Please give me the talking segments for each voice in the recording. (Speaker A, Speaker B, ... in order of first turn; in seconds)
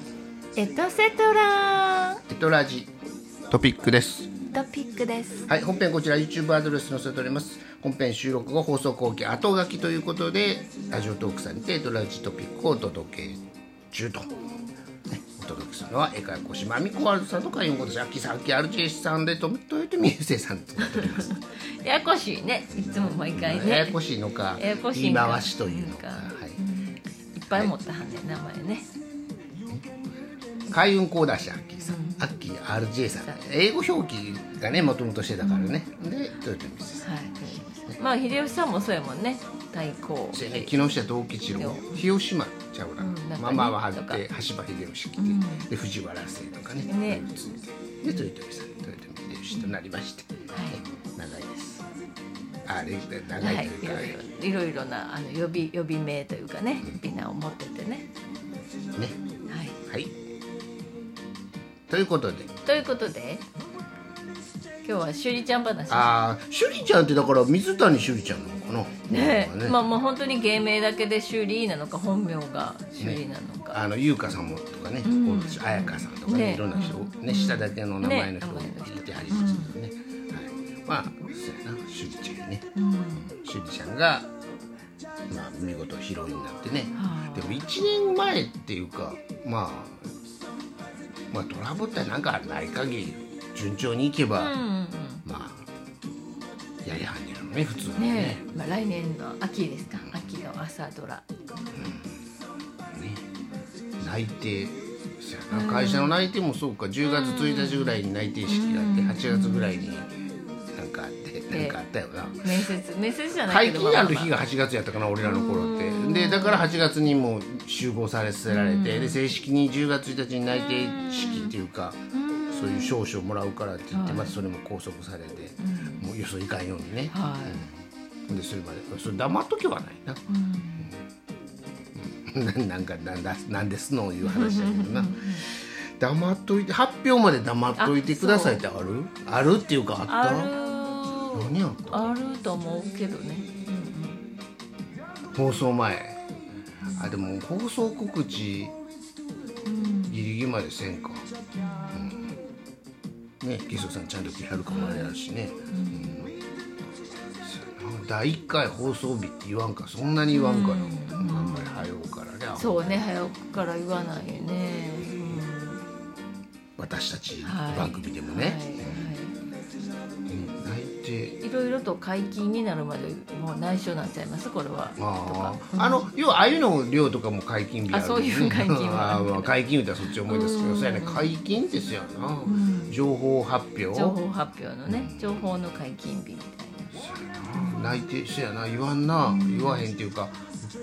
Speaker A: 0.6-2.2, 4.5-5.5, 20.8-24.0, 24.6-28.9, 31.8-32.3, 35.4-35.8, 37.0-40.9, 41.5-42.0, 43.0-44.2, 45.2-45.7, 46.9-47.2, 50.5-50.8, 53.4-58.1, 59.5-59.8, 62.6-63.4, 64.8-66.2, 69.1-73.8, 75.0-79.7, 82.7-83.3, 86.9-87.7, 94.3-95.2, 98.0-101.3, 105.5-106.2, 107.0-109.9, 111.5-111.8, 112.4-114.4, 115.2-116.7, 118.5-119.2, 120.5-121.5, 122.1-123.0, 123.9-124.4, 125.6-126.1, 127.1-127.6, 130.3-130.9, 134.2-135.5, 137.8-138.6, 140.1-144.2, 149.6-150.3, 151.5-152.3, 154.7-155.1, 155.7-156.2, 160.3-161.9, 162.5-165.8, 167.4-169.4, 171.4-176.1, 177.9-179.6, 180.1-181.3, 182.4-182.9, 183.9-186.9, 187.5-188.0, 189.2-189.9
Speaker B: 2.3-2.9, 3.5-4.3, 5.5-14.3, 15.1-21.3, 22.8-26.6, 27.5-27.8, 30.7-37.1, 40.3-51.9, 52.6-54.2, 56.8-57.1, 59.9-60.1, 61.9-62.7, 65.9-69.8, 73.0-82.7, 83.2-84.3, 85.3-90.1, 91.3-94.5, 95.2-95.7, 96.8-98.5, 100.0-100.3, 101.7-102.1, 102.9-103.2, 104.0-110.2, 110.7-112.7, 113.5-127.7, 128.3-130.2, 131.9-140.5, 141.3-142.2, 145.3-146.2, 146.9-148.8, 150.1-151.3, 151.9-152.3, 153.4-156.3, 157.4-163.1, 166.8-169.1, 170.3-171.4, 175.0-184.2, 184.9-185.5, 187.0-190.4